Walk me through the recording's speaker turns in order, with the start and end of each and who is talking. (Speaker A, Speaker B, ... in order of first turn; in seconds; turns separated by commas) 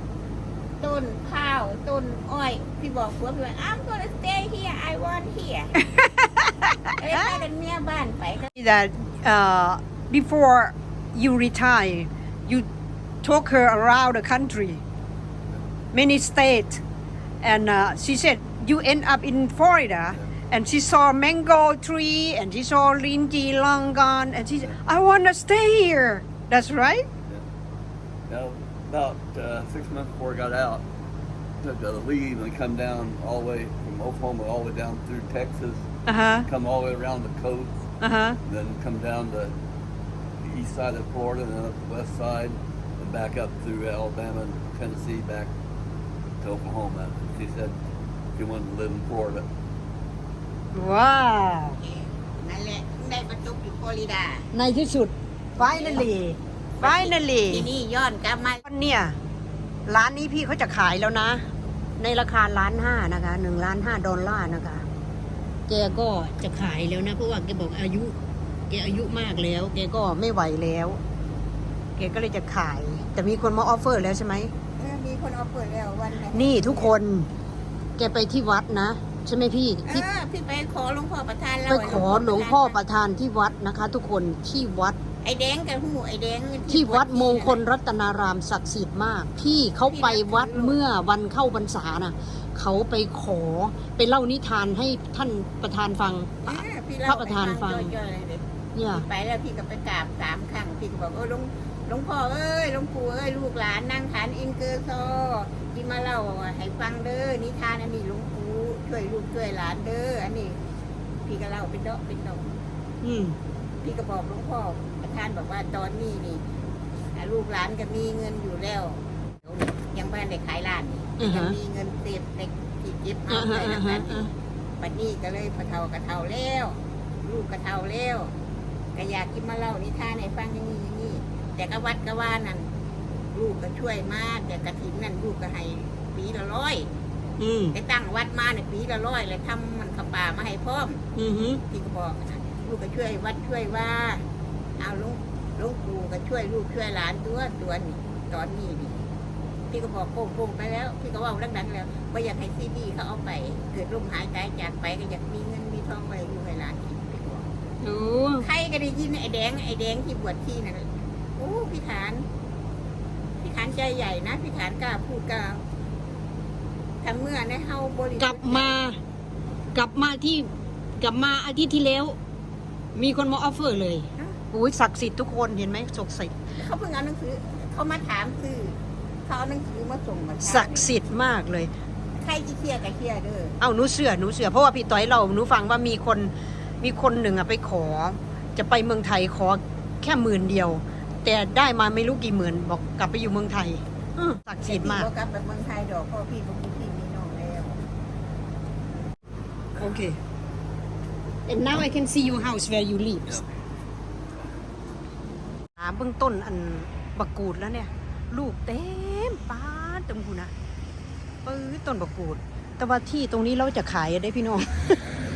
Speaker A: 0.8-5.8, Speaker B: 6.0-7.4, Speaker A: 7.0-8.5, Speaker B: 8.6-12.7, Speaker B: 13.2-14.8, Speaker B: 15.9-16.8, Speaker B: 17.4-27.1, Speaker C: 28.3-30.9, Speaker C: 31.6-35.9, Speaker B: 36.1-36.5, Speaker C: 36.5-37.9, Speaker B: 38.0-38.4, Speaker C: 38.5-39.5, Speaker C: 40.4-45.5, Speaker C: 46.4-47.8, Speaker C: 48.4-49.5, Speaker B: 50.7-51.8, Speaker A: 51.8-54.5, Speaker B: 54.5-57.7, Speaker A: 55.6-56.1, Speaker A: 56.8-58.6, Speaker B: 58.6-59.2, Speaker B: 59.9-61.5, Speaker B: 62.0-64.9, Speaker B: 65.7-68.2, Speaker B: 68.7-71.0, Speaker B: 72.0-74.5, Speaker A: 74.8-77.0, Speaker B: 76.3-77.3, Speaker B: 78.0-80.0, Speaker A: 79.9-82.8, Speaker B: 81.7-85.0, Speaker A: 85.2-87.6, Speaker B: 86.7-97.9, Speaker A: 89.9-90.8, Speaker A: 96.4-110.6, Speaker B: 98.8-99.1, Speaker A: 111.2-112.5, Speaker B: 113.0-113.4, Speaker A: 113.8-116.4, Speaker A: 117.2-128.3, Speaker B: 121.2-121.6, Speaker B: 123.3-124.3, Speaker A: 128.9-132.7, Speaker A: 133.3-136.9, Speaker B: 137.4-137.8, Speaker A: 137.7-141.1, Speaker B: 141.2-141.6, Speaker A: 141.7-144.2, Speaker A: 144.8-149.0, Speaker A: 149.7-157.5, Speaker B: 157.8-158.5, Speaker A: 158.4-162.2, Speaker A: 163.4-165.6, Speaker A: 167.0-168.8, Speaker B: 168.2-169.0, Speaker B: 169.7-172.2, Speaker B: 172.9-176.3, Speaker A: 176.5-180.9, Speaker B: 180.4-181.7, Speaker A: 182.2-183.6, Speaker B: 183.6-195.1, Speaker A: 194.6-197.8, Speaker B: 199.8-200.2, Speaker B: 201.5-203.4, Speaker B: 205.8-210.5, Speaker B: 211.4-215.0